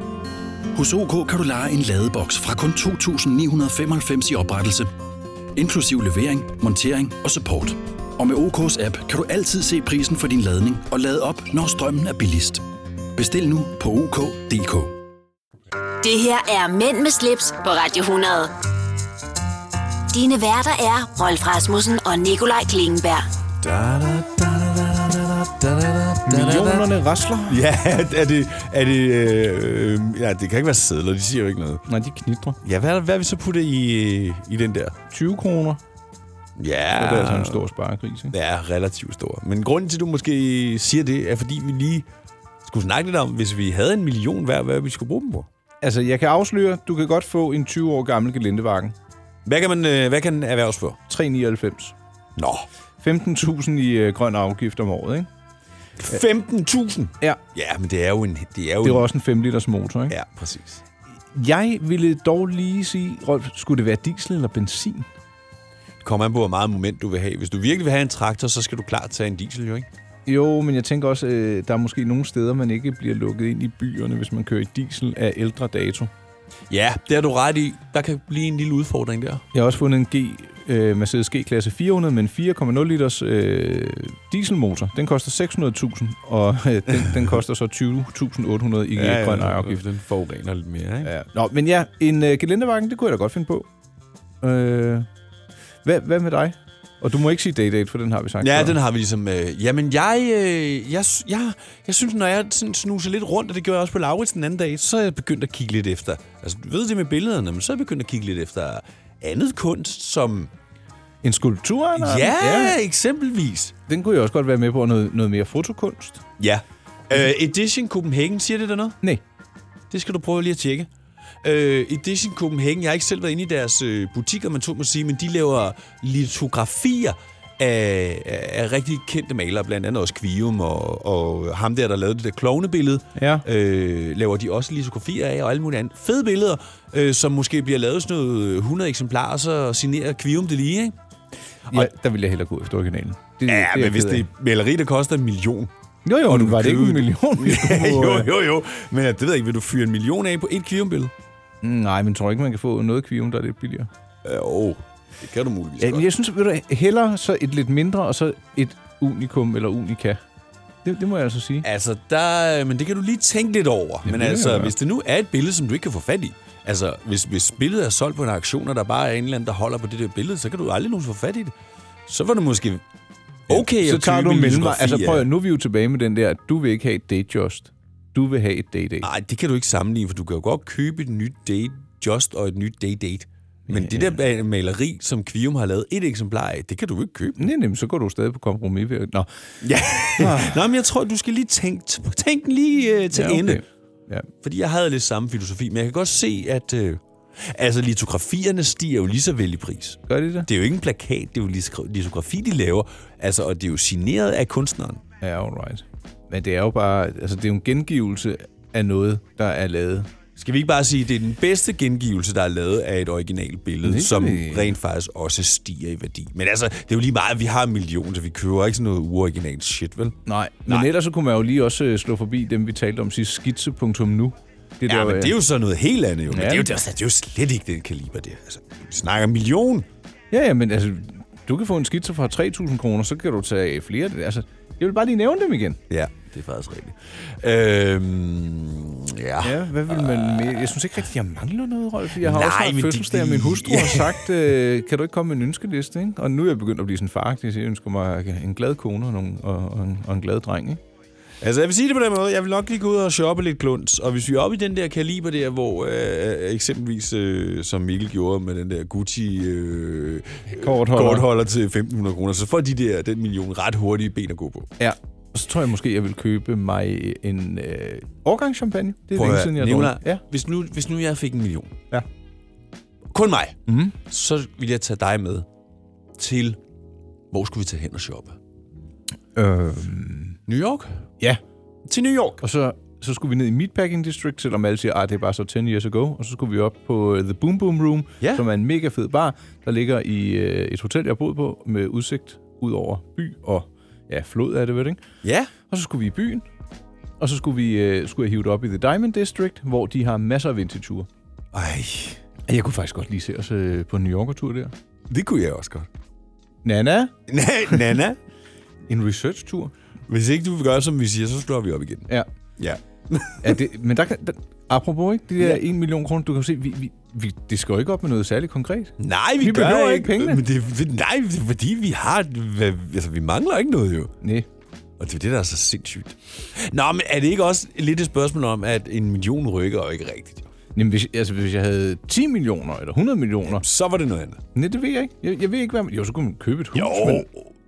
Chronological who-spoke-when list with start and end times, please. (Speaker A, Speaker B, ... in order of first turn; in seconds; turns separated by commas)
Speaker A: 0.7-4.9, Speaker A: 5.5-12.6, Speaker A: 13.2-14.9, Speaker B: 16.0-18.5, Speaker B: 20.1-23.3, Speaker C: 23.6-26.9, Speaker D: 26.3-27.6, Speaker C: 27.5-31.9, Speaker D: 31.9-32.6, Speaker C: 32.6-35.0, Speaker D: 35.1-35.8, Speaker C: 36.6-37.7, Speaker D: 37.0-38.4, Speaker C: 38.3-42.1, Speaker C: 42.6-45.5, Speaker D: 45.8-49.0, Speaker C: 49.5-51.0, Speaker D: 51.1-52.0, Speaker C: 52.4-52.7, Speaker D: 53.0-55.3, Speaker C: 56.0-59.1, Speaker D: 58.8-60.1, Speaker C: 60.1-60.8, Speaker D: 61.3-65.1, Speaker C: 66.0-69.9, Speaker D: 70.3-76.1, Speaker C: 76.7-79.4, Speaker D: 79.5-89.8, Speaker C: 89.0-91.1, Speaker D: 91.0-93.7, Speaker D: 94.4-95.1, Speaker D: 95.8-98.8, Speaker C: 98.4-110.5, Speaker D: 111.2-112.8, Speaker C: 112.0-113.8, Speaker D: 113.9-116.2, Speaker C: 116.4-119.0, Speaker C: 119.9-120.9, Speaker C: 121.4-141.0, Speaker D: 133.2-133.4, Speaker D: 141.7-144.3, Speaker C: 143.5-145.7, Speaker D: 146.1-148.3, Speaker C: 146.2-151.1, Speaker D: 151.6-153.9, Speaker C: 154.2-156.1, Speaker D: 155.8-160.2, Speaker D: 160.8-161.7, Speaker C: 161.6-171.5, Speaker D: 164.1-164.7, Speaker C: 172.1-172.8, Speaker C: 173.5-175.3, Speaker D: 173.5-179.1, Speaker C: 179.0-187.5, Speaker D: 183.7-184.2, Speaker D: 187.4-189.3, Speaker C: 189.6-193.6, Speaker D: 190.2-190.6, Speaker D: 193.1-194.3, Speaker C: 194.4-205.0, Speaker D: 200.1-200.5, Speaker D: 205.2-210.1, Speaker C: 210.4-220.9, Speaker D: 213.8-214.8, Speaker D: 220.3-225.4, Speaker C: 224.9-229.9, Speaker D: 226.3-226.7, Speaker D: 230.3-235.8, Speaker C: 235.9-240.7, Speaker D: 239.4-250.8, Speaker C: 242.2-244.3, Speaker C: 251.4-264.7, Speaker D: 260.5-261.3, Speaker D: 264.8-270.2, Speaker C: 269.1-271.8, Speaker C: 273.1-275.5, Speaker D: 273.7-273.9, Speaker C: 276.2-276.6, Speaker C: 277.3-278.4, Speaker D: 279.4-280.4, Speaker C: 280.5-281.0, Speaker C: 281.9-282.4, Speaker D: 282.4-295.0, Speaker C: 295.2-295.5, Speaker D: 295.7-296.4, Speaker D: 297.2-301.1, Speaker C: 301.5-302.2, Speaker D: 302.5-304.7, Speaker C: 305.1-305.9, Speaker D: 306.6-307.1, Speaker C: 307.3-308.2, Speaker D: 308.9-309.7, Speaker C: 310.1-313.6, Speaker D: 313.4-320.4, Speaker C: 319.0-324.1, Speaker D: 324.2-324.5, Speaker C: 325.0-330.5, Speaker D: 330.8-333.6, Speaker C: 333.4-334.4, Speaker D: 334.5-337.3, Speaker C: 336.7-337.5